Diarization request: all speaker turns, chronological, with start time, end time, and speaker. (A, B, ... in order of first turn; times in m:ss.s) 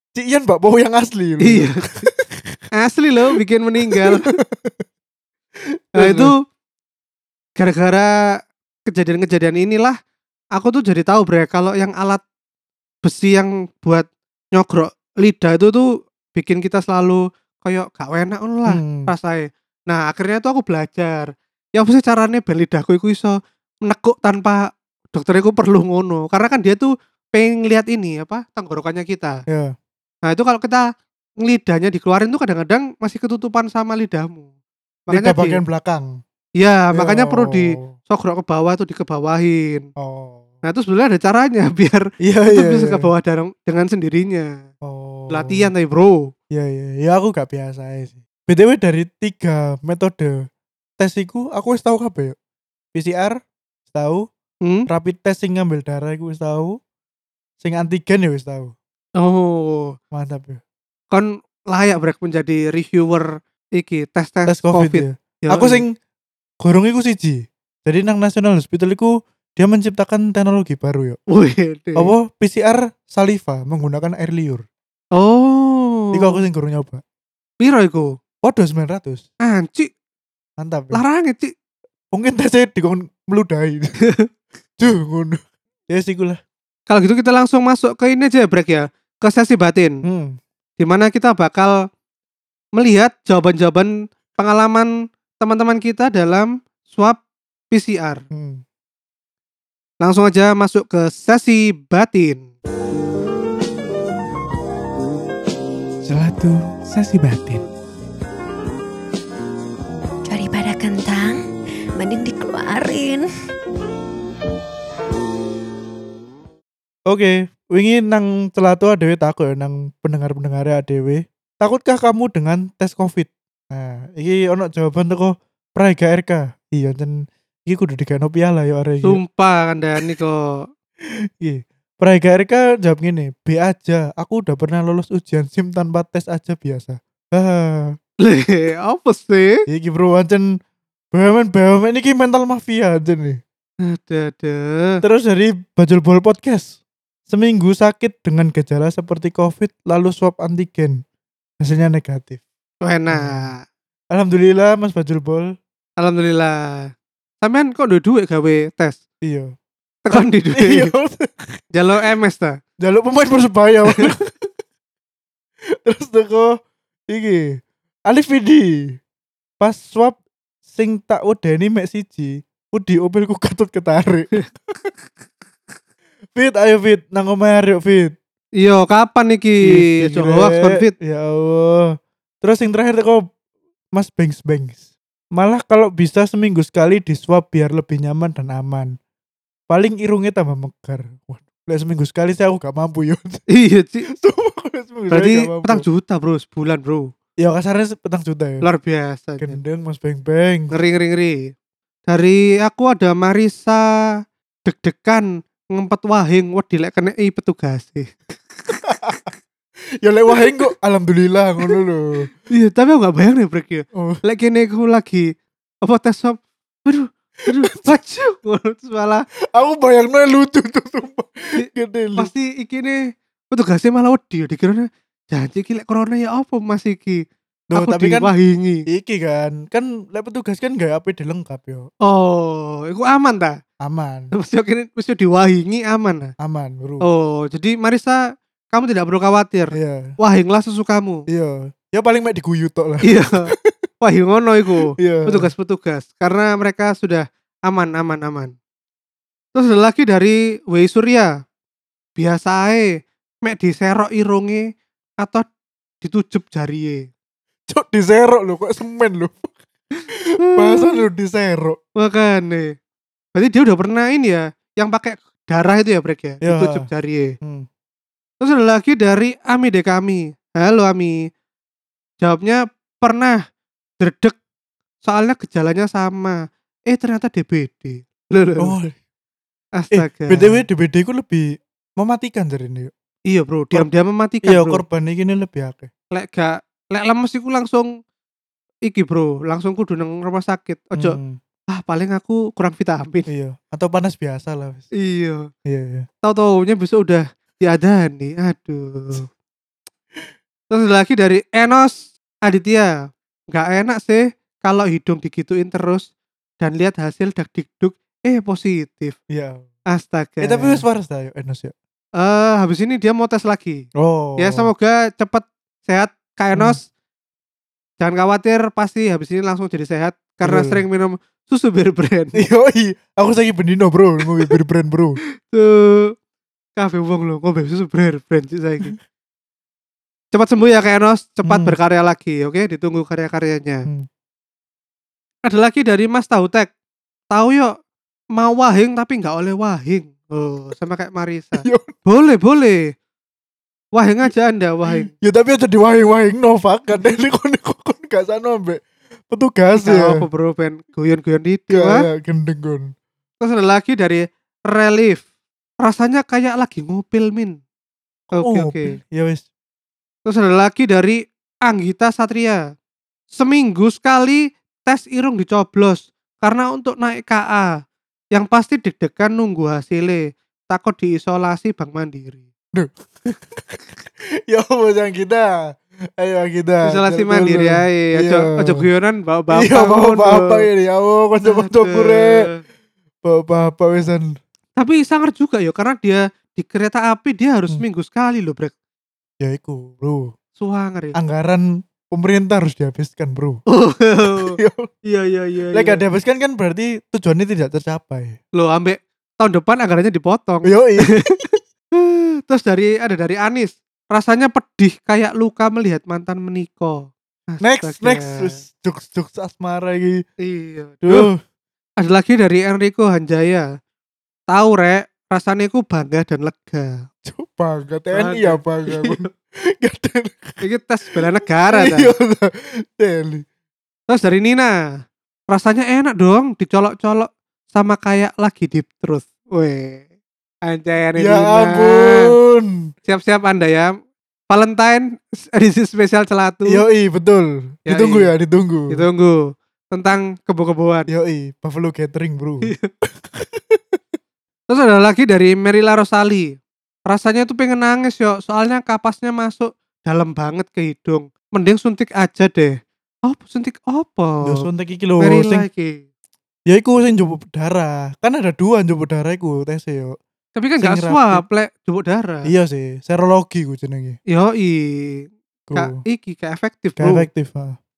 0:00.2-0:02.6 A
0:01.4-0:02.1 B
0:02.8-0:04.3 B
0:03.9-0:04.8 A
0:05.7-0:06.3 A
0:06.0-0:06.4 B
0:07.6-0:08.2 B
0:08.9-0:10.0 B
0:10.6-0:12.2 B
0:13.0-0:29.4 B
0:18.7-0:19.1 A
0:29.5-0:29.8 A
0:30.3-0:30.9 B
0:31.4-0:34.5 B
0:35.1-0:35.6 B
0:35.1-0:36.2 A
0:36.6-0:39.9 B
0:36.9-0:37.9 A
0:40.0-0:40.5 A
0:40.6-0:44.7 B
0:42.2-0:43.1 A
0:44.8-0:45.7 A
0:45.3-0:46.3 B
0:46.5-0:50.5 A
0:51.0-0:52.4 A
0:52.9-0:54.3 A
0:54.6-0:54.9 B
0:54.9-0:56.8 A
0:57.6-0:58.8 A
0:59.2-1:00.0 B
1:00.1-1:00.6 A
1:01.1-1:05.8 B
1:04.5-1:05.9 A
1:06.6-1:11.2 A
1:11.3-1:12.1 B
1:12.0-1:14.7 A
1:15.2-1:16.4 B
1:16.1-1:17.0 A
1:17.6-1:18.2 B
1:18.4-1:19.2 A
1:19.4-1:19.9 B
1:20.6-1:21.0 A
1:20.9-1:21.5 B
1:22.1-1:23.9 A
1:24.8-1:26.4 A
1:26.9-1:30.0 B
1:30.0-1:30.4 A
1:30.8-1:31.8 B
1:32.8-1:38.2 B
1:38.3-1:38.6 A
1:40.0-1:42.5 B
1:46.1-1:47.6 A
1:50.3-1:51.5 C
1:52.0-1:53.3 C
1:57.1-2:09.2 A
2:09.0-2:10.7 B
2:11.4-2:18.0 A
2:18.2-2:19.6 B
2:19.7-2:20.6 A
2:21.1-2:23.4 A
2:23.9-2:25.0 B
2:25.0-2:26.8 A
2:27.3-2:31.0 A
2:31.6-2:32.4 A
2:32.8-2:33.6 B
2:33.1-2:33.5 A
2:34.1-2:35.5 A
2:36.0-2:36.9 B
2:37.4-2:39.0 B
2:39.2-2:39.5 A
2:40.1-2:40.9 B
2:40.1-2:41.5 A
2:41.7-2:42.6 B
2:42.8-2:44.5 A
2:45.7-2:46.6 A
2:47.1-2:49.0 A
2:49.6-2:54.3 A
2:56.4-2:58.2 A
2:58.6-3:00.9 B
2:59.6-3:03.3 A
3:03.9-3:08.9 A
3:09.7-3:13.4 A
3:13.5-3:14.1 B
3:14.1-3:15.8 A
3:15.1-3:17.1 B
3:17.4-3:18.6 A
3:18.6-3:19.6 B
3:19.4-3:20.7 A
3:20.7-3:21.4 B
3:22.1-3:23.8 B
3:24.7-3:29.3 B
3:28.9-3:29.2 A
3:30.0-3:32.3 A
3:32.5-3:35.3 B
3:35.8-3:39.2 B
3:37.5-3:38.0 A
3:39.5-3:42.3 A
3:42.2-3:43.0 B
3:43.5-3:48.8 B
3:47.7-3:48.3 A
3:48.9-3:51.9 A
3:52.0-3:53.6 B
3:53.8-3:54.3 A
3:54.3-3:56.3 B
3:56.4-3:57.0 A
3:57.0-4:01.2 B
3:59.7-4:00.1 A
4:01.3-4:03.7 A
4:03.0-4:08.5 B
4:05.0-4:05.5 A
4:09.6-4:11.3 B
4:12.2-4:14.6 B
4:15.2-4:15.5 B
4:16.0-4:17.1 B
4:17.7-4:19.6 A
4:20.1-4:21.8 A
4:20.4-4:21.0 B
4:22.0-4:22.8 B
4:23.4-4:27.3 B
4:26.4-4:26.9 A
4:27.4-4:27.7 A
4:28.4-4:31.2 B
4:32.2-4:33.4 B
4:34.0-4:34.4 B
4:35.0-4:38.7 B
4:38.6-4:39.0 A
4:39.8-4:40.6 B
4:39.9-4:42.9 A
4:43.3-4:44.8 B
4:44.4-4:45.9 A
4:46.1-4:47.9 B
4:48.9-4:51.2 B
4:51.0-4:51.4 A
4:51.7-4:53.3 B
4:53.3-4:54.9 A
4:55.0-4:55.5 B
4:55.7-4:56.1 A
4:56.2-4:59.3 B
5:00.7-5:02.9 B
5:03.5-5:06.1 B
5:06.6-5:09.2 B
5:09.3-5:09.6 A
5:09.9-5:10.8 B
5:10.4-5:11.7 A
5:12.2-5:13.9 B
5:14.0-5:14.7 A
5:14.4-5:16.8 B
5:18.0-5:22.4 B
5:20.4-5:20.8 A
5:22.4-5:25.2 A
5:25.5-5:26.1 B
5:26.8-5:29.0 B
5:30.3-5:33.9 B
5:31.4-5:31.8 A
5:35.4-5:36.7 B
5:37.3-5:37.7 B
5:38.4-5:42.9 B
5:41.6-5:41.9 A
5:43.9-5:45.1 B
5:45.0-5:50.2 A
5:49.8-5:52.1 B
5:51.7-5:52.9 A
5:53.4-5:55.2 B
5:55.8-5:57.6 B
5:58.4-5:58.9 B
5:58.4-5:59.4 A
6:00.3-6:02.6 B
6:03.3-6:07.7 B
6:08.3-6:12.5 B
6:12.7-6:13.8 A
6:14.5-6:18.8 A
6:16.8-6:20.7 B
6:19.5-6:22.5 A
6:21.4-6:22.6 B
6:23.2-6:24.4 A
6:24.8-6:28.7 B
6:29.4-6:30.3 A
6:30.6-6:31.2 B
6:31.2-6:33.6 A
6:33.7-6:36.0 B
6:34.2-6:34.9 A
6:35.7-6:38.4 A
6:38.6-6:48.6 B
6:40.6-6:41.4 A
6:47.6-6:50.2 A
6:50.4-6:51.3 B
6:51.0-6:51.4 A
6:52.0-6:53.7 B
6:54.5-6:57.0 B
6:57.2-7:00.6 A
6:58.1-6:59.3 B
7:00.6-7:02.1 B
7:01.7-7:03.4 A
7:04.1-7:04.7 B
7:05.5-7:10.1 B
7:10.7-7:12.3 B
7:11.2-7:12.8 A
7:13.1-7:13.9 B
7:14.5-7:16.8 B
7:16.7-7:19.0 A
7:17.9-7:18.3 B
7:18.9-7:19.4 B
7:19.9-7:21.1 B
7:21.1-7:24.2 A
7:24.7-7:34.7 B
7:34.4-7:35.7 A
7:35.2-7:36.0 B
7:36.7-7:40.2 A
7:40.6-7:42.5 B
7:40.8-7:41.4 A
7:42.4-7:44.2 A
7:44.3-7:47.3 B
7:45.7-7:46.0 A
7:47.0-7:47.8 A